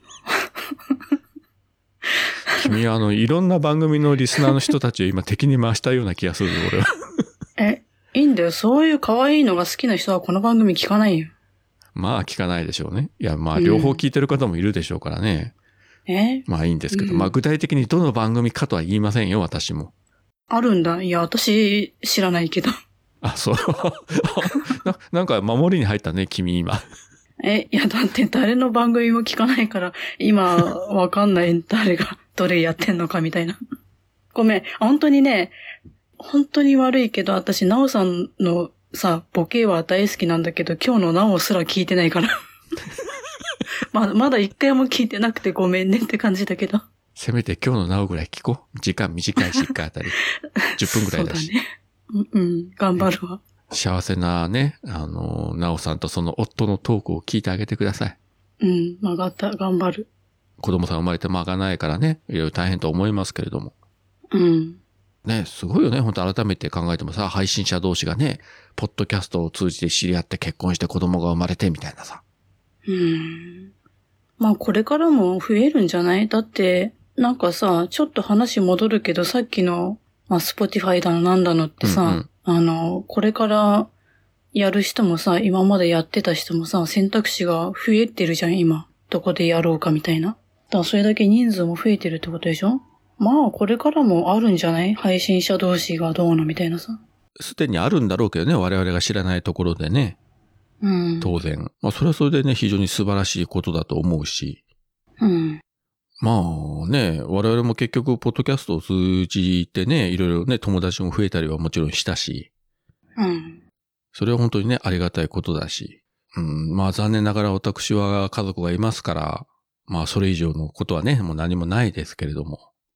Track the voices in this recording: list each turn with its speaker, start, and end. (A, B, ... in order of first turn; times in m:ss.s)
0:02.5-0:06.9 A
0:07.6-0:11.3 B
0:11.9-0:15.5 A
0:13.6-0:14.0 B
0:16.1-0:17.3 B
0:16.5-0:19.9 A
0:20.5-0:22.7 B
0:23.2-0:26.8 A
0:27.4-0:33.6 B
0:34.3-0:35.5 B
0:36.2-0:42.3 B
0:43.9-0:46.8 B
0:47.2-0:50.2 A
0:50.6-0:53.4 B
0:50.8-0:51.5 A
0:53.7-0:58.2 A
0:58.6-1:00.1 B
1:00.6-1:03.7 A
1:04.3-1:04.8 B
1:05.2-1:12.2 A
1:12.8-1:13.7 B
1:14.4-1:23.9 B
1:21.8-1:22.3 A
1:24.5-1:37.0 B
1:37.4-1:40.2 A
1:40.8-1:41.3 B
1:41.2-1:44.6 A
1:45.2-1:45.6 B
1:46.2-1:52.5 A
1:53.2-1:53.6 B
1:54.1-2:02.6 A